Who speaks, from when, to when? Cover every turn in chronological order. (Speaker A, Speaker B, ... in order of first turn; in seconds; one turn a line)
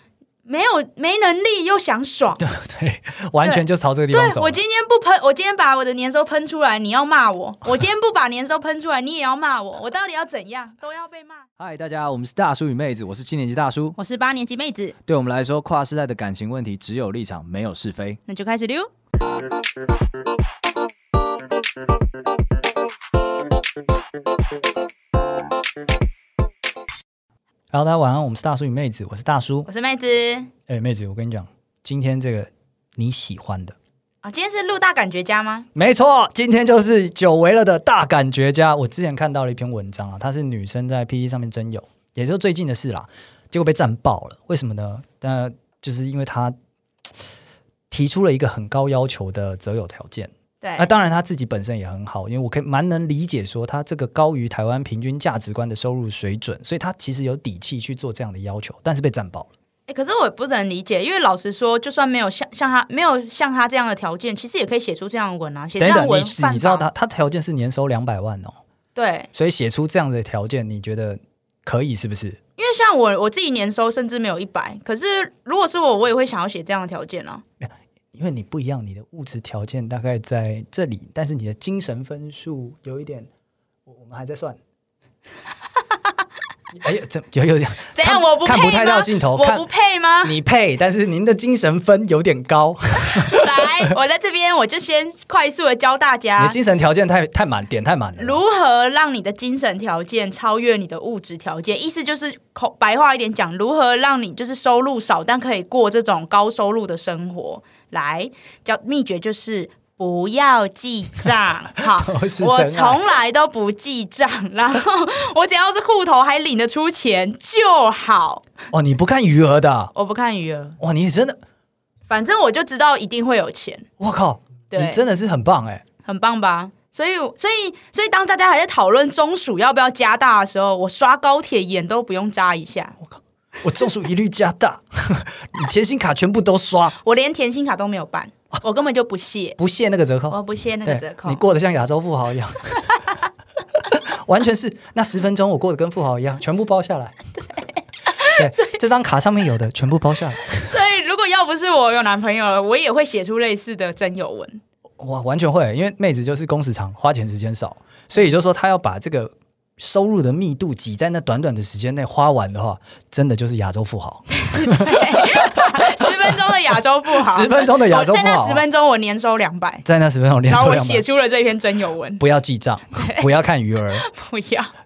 Speaker A: 0.5-2.4
Speaker B: 2.4-4.6
Speaker A: 3.4-11.4
Speaker B: 11.6-13.9
Speaker A: 13.9-14.9
Speaker B: 15.1-18.2
Speaker A: 18.3-18.9
Speaker B: 27.7-29.7
Speaker A: 29.6-30.5
Speaker B: 30.7-33.8
Speaker A: 34.2-35.7
Speaker B: 35.7-46.5
Speaker B: 47.9-59.5
Speaker A: 50.6-50.9
Speaker A: 59.9-66.9
Speaker B: 65.8-68.5
Speaker A: 68.9-69.3
Speaker B: 69.3-72.4
Speaker A: 72.6-77.4
Speaker B: 77.6-83.3
Speaker B: 83.8-84.6
Speaker A: 85.8-86.1
Speaker B: 86.7-89.6
Speaker A: 87.9-90.3
Speaker B: 90.2-93.7
Speaker A: 93.1-96.6
Speaker B: 96.4-98.4
Speaker A: 98.2-118.4
Speaker B: 111.8-113.0
Speaker B: 118.7-119.9
Speaker A: 119.9-120.8
Speaker B: 120.8-121.4
Speaker A: 122.1-123.9
Speaker B: 124.0-125.8
Speaker A: 124.7-125.0
Speaker A: 126.0-133.0
Speaker B: 133.0-136.9
Speaker A: 137.0-139.6
Speaker B: 139.6-142.8
Speaker A: 140.3-141.4
Speaker B: 143.8-147.2
Speaker A: 147.5-148.8
Speaker B: 148.3-150.8
Speaker A: 150.6-154.6
Speaker B: 155.0-166.4
Speaker A: 164.3-169.8
Speaker B: 167.1-168.6
Speaker B: 169.8-171.0
Speaker A: 170.5-172.2
Speaker B: 172.2-174.1
Speaker A: 172.9-173.3
Speaker A: 173.9-174.7